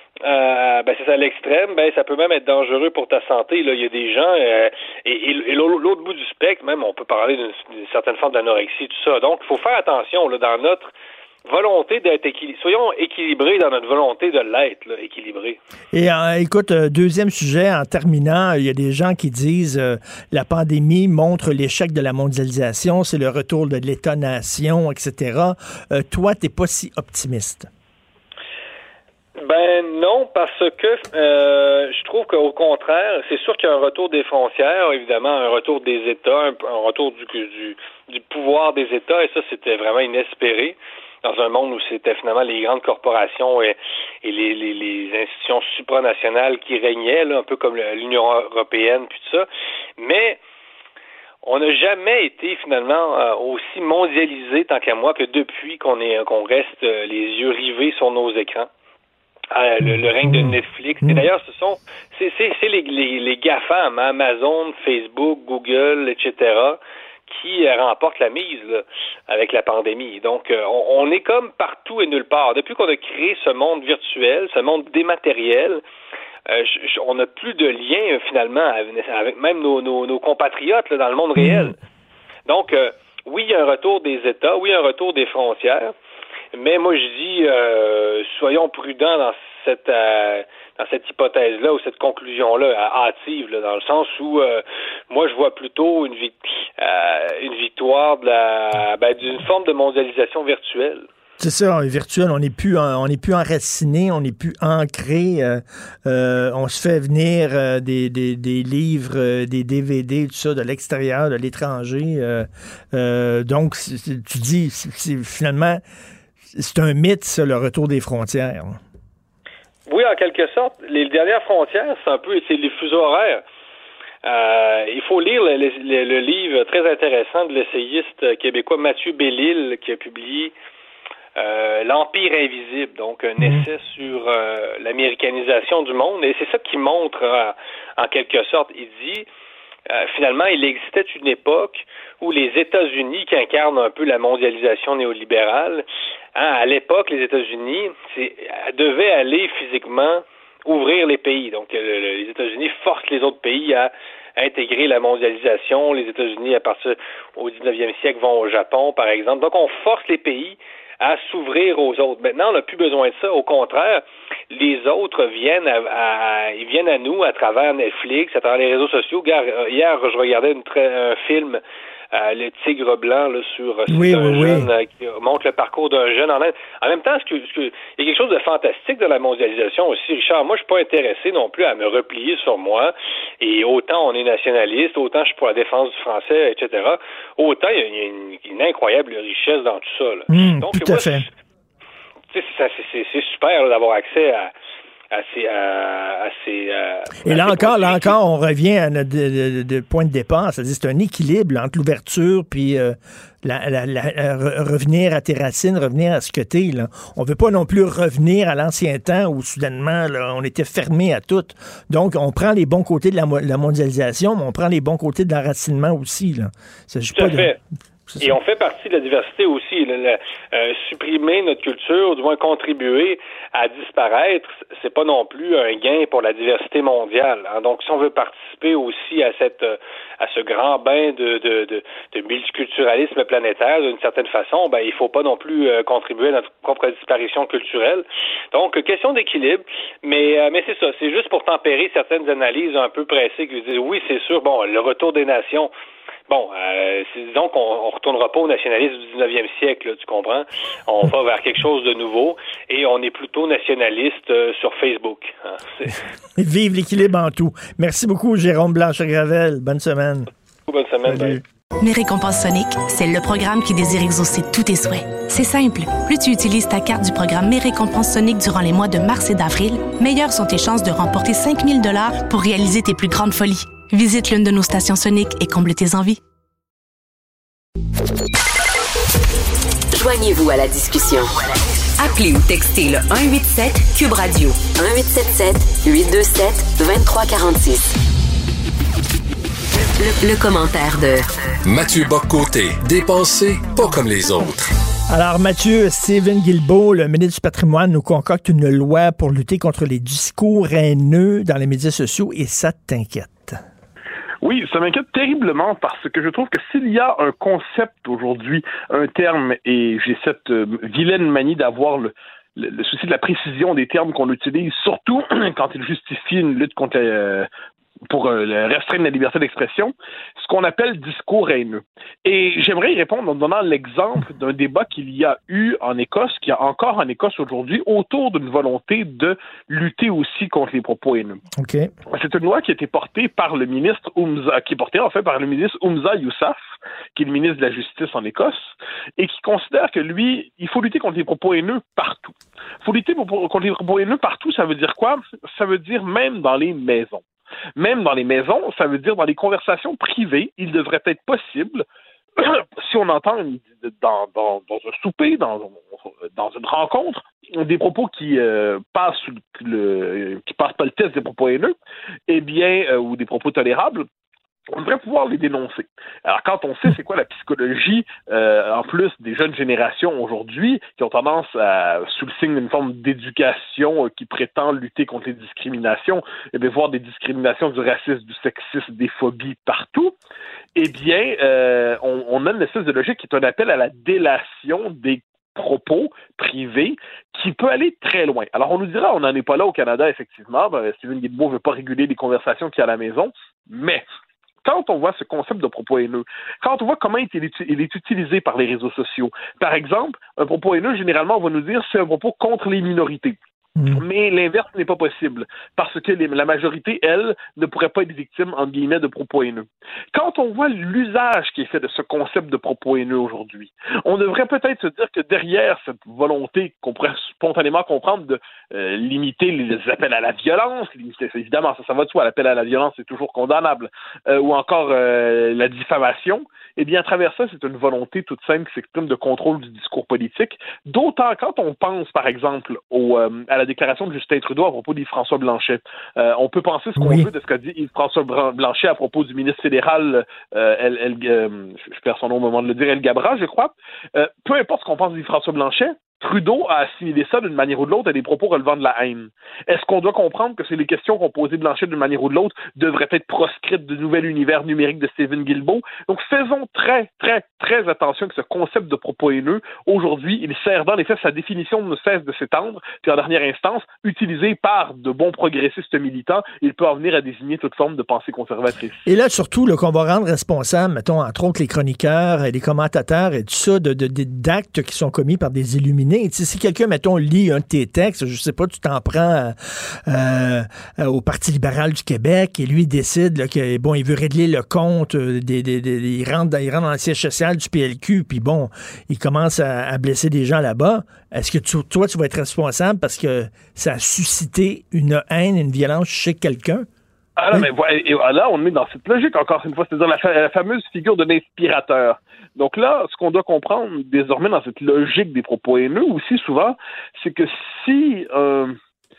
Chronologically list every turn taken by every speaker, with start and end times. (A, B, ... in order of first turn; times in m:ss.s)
0:00.2-0:10.9 A
0:11.5-0:15.6 A
0:15.9-0:27.7 B
0:29.4-0:49.5 A
0:50.0-0:50.4 A
0:51.4-0:58.7 A
0:59.5-1:15.8 A
1:00.2-1:01.3 B
1:16.5-1:21.8 A
1:21.4-1:21.7 B
1:22.5-1:25.9 A
1:26.5-1:41.1 A
1:41.4-1:55.8 B
1:56.5-1:58.8 B
1:59.9-2:03.4 A
2:04.2-2:10.5 A
2:11.4-2:19.3 A
2:19.9-2:25.8 A
2:26.4-2:51.6 A
2:52.1-3:11.3 A
2:53.9-2:54.7 B
3:10.3-3:11.3 B
3:12.3-3:14.5 A
3:15.1-3:18.2 A
3:17.3-3:37.6 B
3:37.1-3:37.6 A
3:38.2-4:05.7 A
4:06.3-4:16.0 A
4:16.4-4:20.3 B
4:20.7-4:21.4 A
4:21.1-4:21.4 B
4:21.8-4:36.2 C
4:39.9-4:41.4 D
4:42.0-4:47.9 D
4:50.0-4:51.2 D
4:51.7-4:54.7 E
4:55.1-5:03.6 B
5:04.4-5:17.5 F
5:18.1-5:31.4 F
5:31.6-5:31.9 B
5:32.1-5:36.6 F
5:37.2-5:47.2 F
5:47.8-5:51.8 F
5:52.4-6:01.7 F
6:02.3-6:04.1 F
6:04.7-6:20.1 F
6:20.8-6:34.0 F
6:34.6-6:43.4 F
6:43.8-6:44.0 B
6:43.9-7:49.0 F
7:17.0-7:17.3 B
7:49.1-8:16.9 B
8:17.4-8:28.8 F